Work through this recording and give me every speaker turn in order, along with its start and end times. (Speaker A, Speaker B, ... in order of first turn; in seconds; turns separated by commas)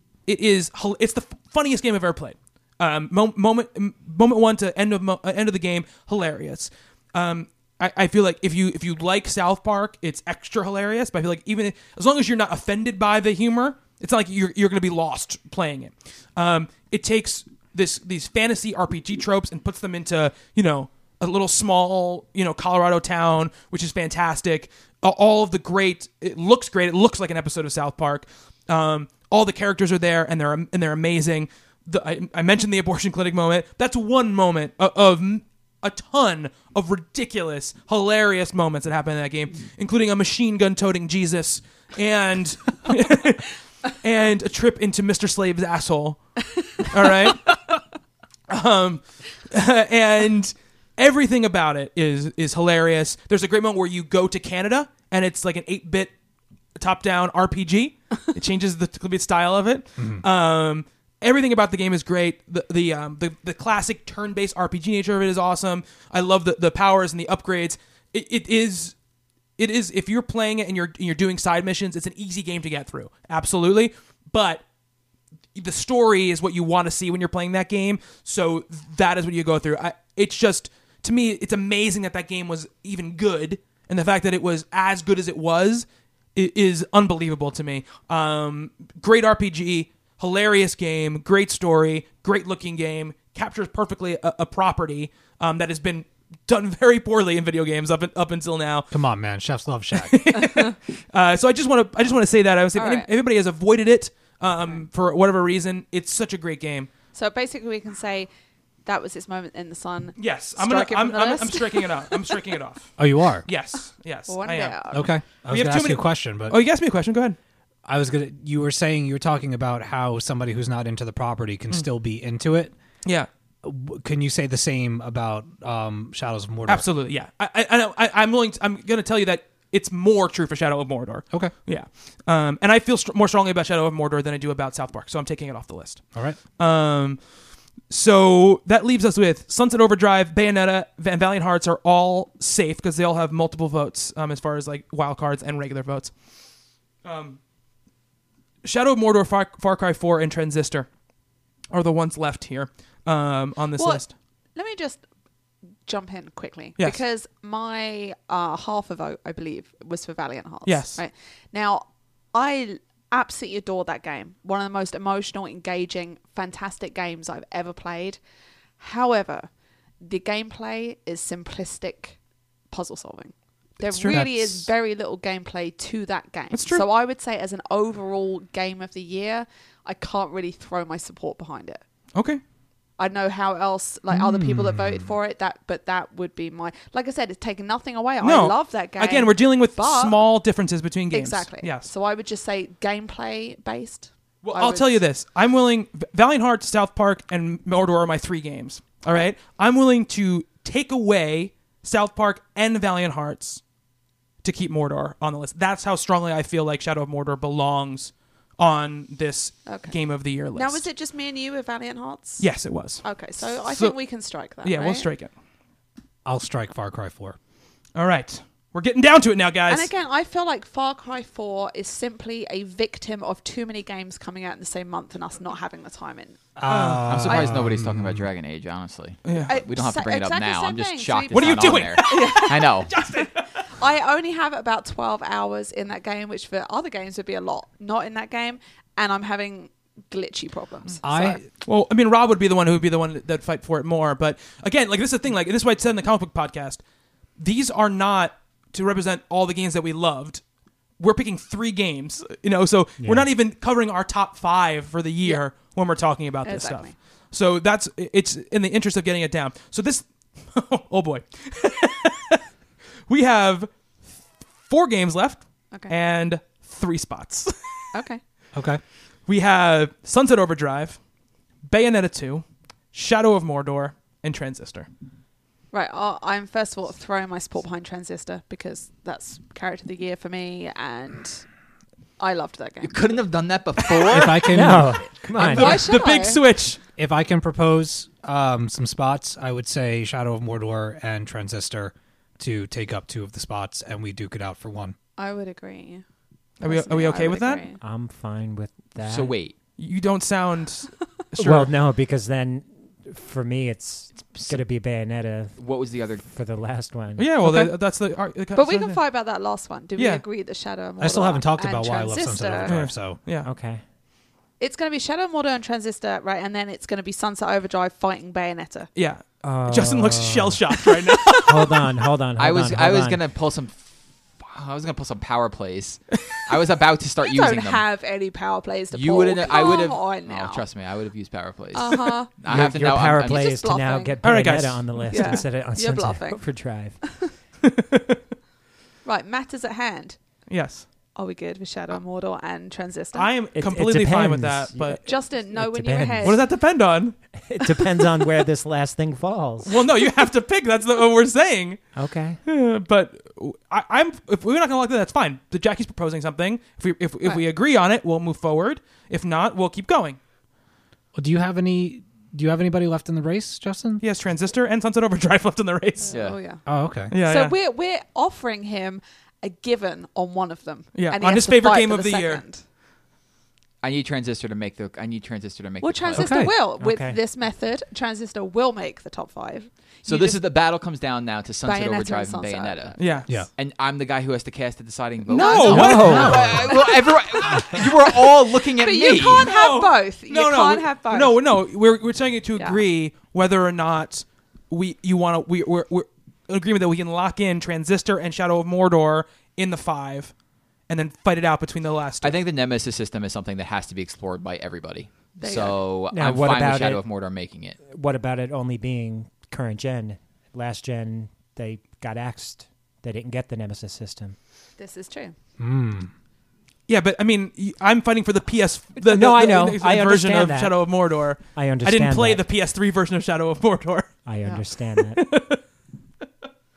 Speaker A: 0.2-46.2, Speaker A: 46.8-47.6, Speaker A: 48.5-56.1, Speaker A: 56.8-68.9, Speaker B: 60.0-60.2, Speaker A: 69.6-74.6, Speaker A: 75.5-98.9, Speaker B: 98.9-100.3, Speaker A: 99.9-106.9, Speaker C: 102.7-103.1, Speaker C: 107.1-108.3, Speaker C: 108.8-112.4, Speaker A: 110.2-112.9, Speaker B: 113.0-113.5, Speaker A: 113.5-114.8, Speaker C: 114.3-115.1, Speaker B: 114.9-116.6, Speaker A: 115.4-117.4, Speaker B: 117.8-122.7, Speaker B: 123.6-126.8, Speaker A: 126.7-136.0, Speaker A: 136.6-137.2, Speaker A: 137.9-146.1, Speaker A: 147.0-147.4, Speaker A: 148.6-150.9, Speaker A: 151.7-154.1, Speaker C: 153.8-155.0, Speaker C: 155.8-168.2, Speaker A: 160.7-161.0, Speaker C: 168.8-169.5, Speaker C: 170.0-172.2, Speaker C: 172.7-181.8, Speaker B: 173.9-174.7, Speaker A: 176.5-176.8, Speaker A: 182.1-182.4, Speaker C: 183.0-190.2, Speaker B: 184.1-185.1, Speaker A: 188.2-191.9, Speaker C: 191.1-195.0, Speaker A: 194.4-203.6, Speaker A: 204.4-210.8, Speaker C: 209.7-209.9, Speaker C: 210.5-212.5, Speaker A: 212.4-213.9, Speaker C: 213.0-215.1, Speaker A: 214.6-215.3, Speaker B: 216.2-217.4, Speaker A: 217.9-219.9, Speaker C: 219.7-226.4, Speaker B: 226.6-228.2, Speaker A: 226.7-227.2, Speaker D: 227.0-232.9, Speaker A: 229.2-229.6, Speaker C: 229.4-241.4, Speaker A: 231.3-233.4, Speaker B: 241.0-241.4, Speaker A: 241.6-246.8, Speaker A: 247.4-250.4, Speaker A: 251.0-262.4, Speaker E: 253.0-253.3, Speaker C: 256.4-256.9, Speaker A: 263.1-263.7, Speaker A: 264.6-267.6, Speaker C: 267.9-268.2, Speaker B: 268.5-268.8, Speaker A: 269.3-271.0, Speaker A: 271.6-274.9, Speaker C: 275.7-281.4, Speaker C: 282.2-283.0, Speaker D: 282.8-284.5, Speaker C: 283.8-284.1, Speaker B: 284.1-285.0, Speaker E: 284.4-285.9, Speaker A: 285.3-286.8, Speaker C: 285.4-286.4, Speaker B: 287.0-294.9, Speaker C: 295.2-296.0, Speaker A: 296.6-297.6, Speaker C: 296.6-297.8, Speaker E: 297.8-299.4, Speaker D: 299.0-299.5, Speaker A: 299.8-301.7, Speaker E: 301.4-305.6, Speaker D: 304.1-304.6, Speaker D: 305.6-306.2, Speaker E: 306.2-307.5, Speaker A: 307.2-309.0, Speaker C: 308.5-312.8, Speaker A: 310.0-310.2, Speaker B: 311.0-313.2, Speaker A: 312.6-313.5, Speaker E: 313.4-313.8, Speaker C: 314.6-318.9, Speaker A: 318.9-321.9, Speaker E: 319.4-320.6, Speaker C: 321.0-321.3, Speaker E: 321.4-323.2, Speaker D: 322.4-327.8, Speaker C: 327.2-330.6, Speaker D: 328.9-333.4, Speaker C: 331.7-332.3, Speaker E: 332.4-337.3, Speaker C: 333.2-334.2, Speaker A: 334.2-335.4, Speaker C: 335.1-336.4, Speaker A: 337.6-338.2, Speaker C: 339.0-340.2, Speaker A: 340.5-340.9, Speaker C: 341.1-343.3, Speaker A: 343.1-345.0, Speaker E: 343.5-346.4, Speaker C: 345.0-346.4, Speaker A: 346.2-347.2, Speaker E: 347.4-349.7, Speaker A: 349.6-351.9, Speaker E: 351.9-352.4, Speaker A: 352.4-360.2, Speaker B: 361.1-364.0, Speaker A: 364.0-366.1, Speaker C: 366.0-372.6, Speaker D: 366.1-366.4, Speaker B: 366.6-367.1, Speaker A: 367.1-367.5, Speaker A: 370.9-372.4, Speaker D: 373.8-376.3, Speaker C: 375.8-380.5, Speaker B: 376.1-376.5, Speaker E: 376.8-377.2, Speaker D: 380.0-383.0, Speaker C: 381.6-383.2, Speaker A: 383.0-383.3, Speaker D: 383.5-389.5, Speaker A: 385.3-386.4, Speaker C: 385.3-391.4, Speaker E: 385.7-386.6, Speaker B: 386.0-386.5, Speaker A: 389.4-400.3, Speaker A: 400.9-402.4, Speaker D: 402.2-407.8, Speaker C: 405.4-405.8, Speaker E: 406.1-407.0, Speaker E: 407.9-414.4, Speaker C: 414.8-415.3, Speaker B: 415.6-416.1, Speaker A: 416.9-424.2, Speaker E: 419.0-422.4, Speaker E: 424.2-425.2, Speaker A: 424.8-425.6